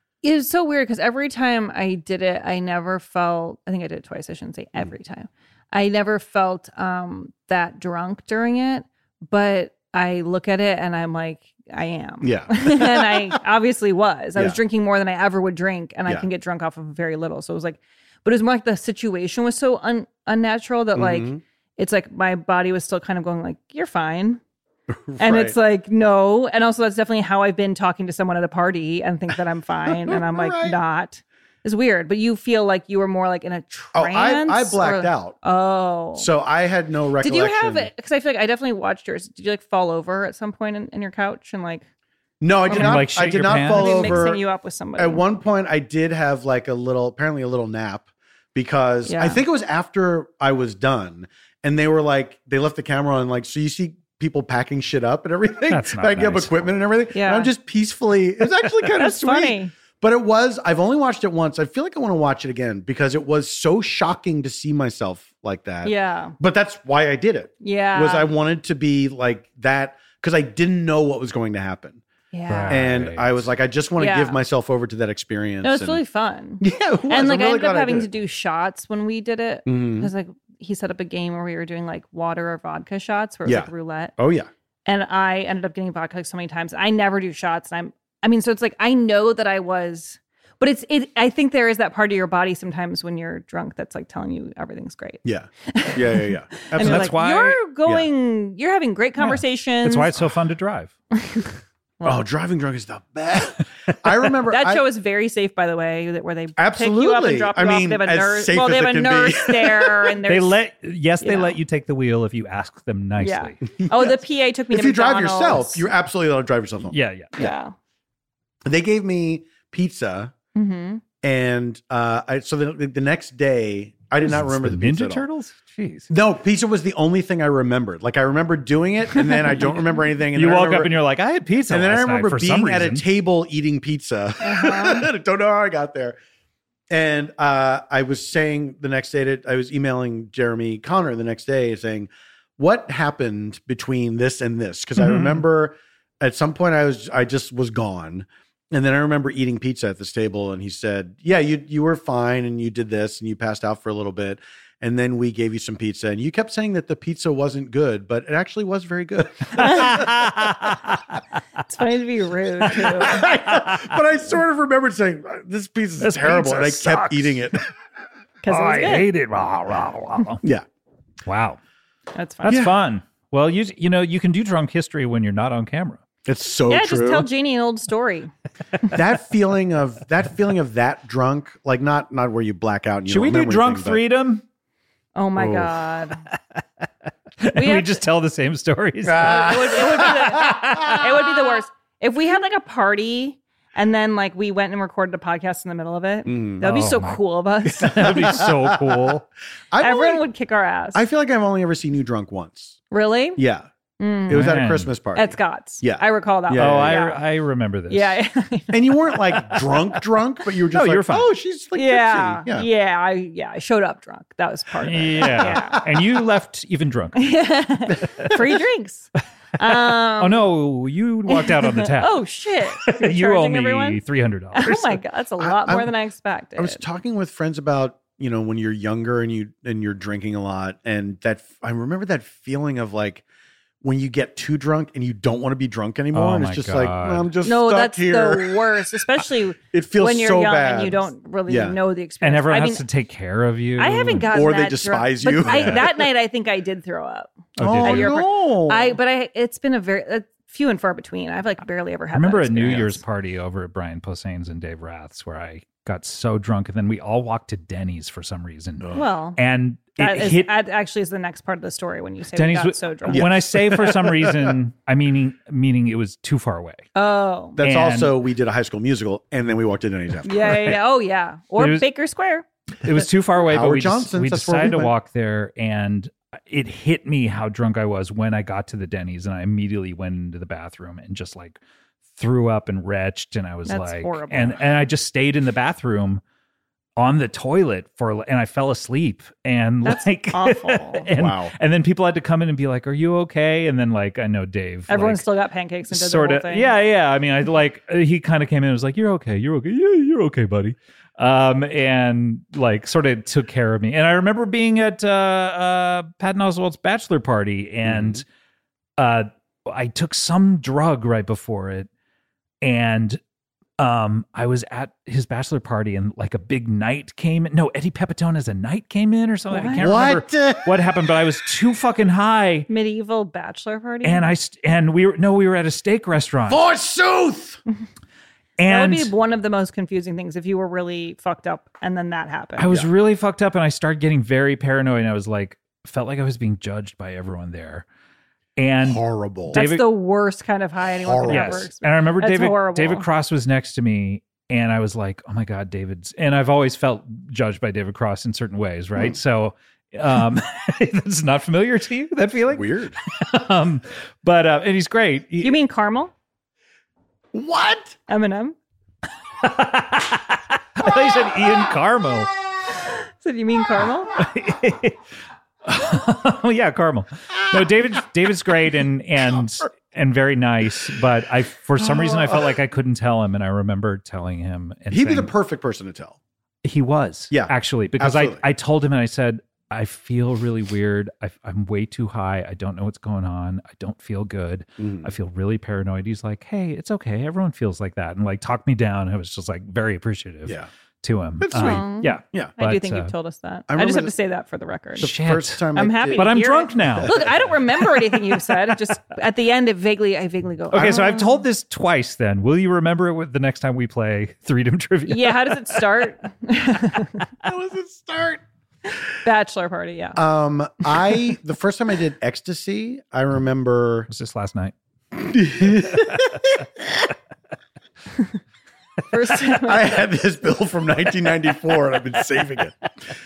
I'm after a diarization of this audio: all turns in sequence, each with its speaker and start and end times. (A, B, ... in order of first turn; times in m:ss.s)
0:00.2-0:24.4 A
0:12.2-0:13.3 B
0:21.0-0:21.4 B
0:24.9-0:25.6 B
0:25.2-0:36.3 A
0:29.9-0:30.8 B
0:33.9-0:35.4 B
0:36.2-0:37.9 B
0:37.2-0:41.8 A
0:42.4-0:44.4 B
0:42.7-0:43.1 A
0:42.7-0:44.3 C
0:43.6-0:45.2 A
0:45.0-1:12.0 B
0:49.1-0:49.4 A
0:55.7-0:56.8 C
0:57.1-0:57.5 A
0:58.9-0:59.7 A
1:05.8-1:06.4 A
1:07.6-1:08.3 A
1:12.3-1:12.8 A
1:12.5-1:13.3 C
1:12.7-1:16.0 B
1:14.0-1:14.4 A
1:15.6-1:24.1 A
1:16.6-1:18.1 B
1:19.6-1:20.1 B
1:23.4-1:24.5 B
1:24.9-1:40.1 A
1:35.2-1:37.2 B
1:36.8-1:37.6 C
1:39.2-1:40.9 C
1:41.2-1:42.2 A
1:42.0-1:44.8 B
1:44.5-1:50.6 A
1:46.6-1:50.1 B
1:50.3-1:53.6 C
1:51.2-1:51.6 A
1:53.2-1:55.8 A
1:53.8-1:54.2 B
1:54.7-1:57.5 B
1:56.9-1:57.4 C
1:57.4-1:57.7 A
1:58.6-2:00.3 B
2:00.6-2:01.0 A
2:01.2-2:05.2 B
2:04.2-2:06.1 C
2:06.1-2:10.9 B
2:09.2-2:09.8 A
2:10.3-2:13.0 C
2:11.7-2:16.2 B
2:14.4-2:15.1 A
2:16.9-2:40.2 B
2:25.0-2:25.4 C
2:39.6-2:39.9 A
2:39.6-2:41.2 C
2:41.7-2:43.3 A
2:42.7-2:47.6 B
2:46.0-2:47.5 C
2:48.4-2:49.1 A
2:48.5-2:50.4 C
2:51.3-2:51.6 C
2:52.1-2:52.7 A
2:52.4-2:56.0 C
2:52.4-2:52.7 B
2:56.3-2:57.3 B
2:56.7-2:58.3 A
2:58.9-3:04.0 B
3:03.1-3:04.4 C
3:05.1-3:06.2 A
3:05.4-3:05.7 B
3:07.4-3:11.0 C
3:07.5-3:08.0 A
3:09.0-3:11.0 B
3:09.2-3:18.4 A
3:16.3-3:16.6 B
3:16.6-3:17.2 C
3:17.8-3:19.3 C
3:17.8-3:19.1 B
3:19.7-3:20.2 B
3:19.8-3:21.0 A
3:20.9-3:22.8 B
3:22.9-3:23.4 A
3:23.4-3:23.7 B
3:24.0-3:24.6 A
3:24.3-3:27.0 B
3:24.3-3:24.9 C
3:25.1-3:27.2 A
3:26.6-3:28.2 C
3:27.9-3:29.7 A
3:28.7-3:32.7 B
3:30.7-3:31.3 C
3:31.7-3:35.8 A
3:34.8-3:37.2 C
3:35.4-3:36.0 B
3:37.1-3:40.5 A
3:39.6-3:45.0 C
3:41.3-3:44.0 A
3:44.6-3:46.8 A
3:45.4-3:45.9 B
3:46.6-3:53.2 B
3:53.8-3:58.6 B
3:56.1-3:57.3 C
3:57.4-4:02.8 A
3:59.7-4:01.8 B
4:02.2-4:04.3 C
4:03.8-4:13.0 A
4:04.3-4:06.0 B
4:07.6-4:08.2 C
4:07.6-4:09.0 B
4:12.1-4:20.5 C
4:18.9-4:19.4 A
4:20.0-4:23.3 A
4:22.4-4:26.8 C
4:23.1-4:24.6 B
4:27.0-4:27.6 A
4:27.6-4:30.8 B
4:27.6-4:28.2 C
4:30.2-4:32.4 A
4:31.6-4:31.8 C
4:32.8-4:41.6 C
4:33.4-4:34.9 B
4:42.2-4:46.2 C
4:43.7-4:44.6 A
4:47.0-4:55.2 C
4:49.8-4:51.0 A
4:51.1-4:51.5 B
4:54.9-4:56.7 A
4:55.9-5:08.3 C
5:07.9-5:08.2 B
5:09.0-5:11.9 C
5:12.6-5:13.2 C
5:13.8-5:22.7 C
5:19.5-5:19.9 A
5:19.8-5:20.8 B
5:22.7-5:24.3 A
5:24.0-5:26.6 C
5:26.5-5:27.6 B
5:28.6-5:29.1 C
5:28.7-5:32.9 A
5:32.6-5:37.9 C
5:38.6-5:39.8 C
5:38.8-5:39.6 B
5:39.5-5:43.0 A
5:41.0-5:41.7 B
5:41.3-5:55.5 C
5:52.5-5:53.0 B
5:55.4-5:56.1 A
5:57.3-5:58.0 B
5:58.1-5:58.6 A
5:59.4-6:02.3 C
6:02.8-6:04.1 A
6:04.1-6:05.0 C
6:05.6-6:15.3 C
6:12.0-6:12.4 B
6:14.9-6:16.2 B
6:16.6-6:33.1 C
6:17.3-6:18.4 B
6:24.8-6:25.1 B
6:31.4-6:32.5 B
6:31.5-6:35.1 A
6:33.7-6:34.1 B
6:35.0-6:37.4 B
6:35.0-6:37.2 C
6:35.7-6:41.4 A
6:40.7-6:45.8 C
6:45.1-6:47.2 A
6:47.4-6:48.4 B
6:49.1-6:50.2 A
6:50.2-6:54.1 B
6:54.1-6:54.7 C
6:55.1-6:56.9 B
6:59.1-7:00.0 A
6:59.4-7:02.8 B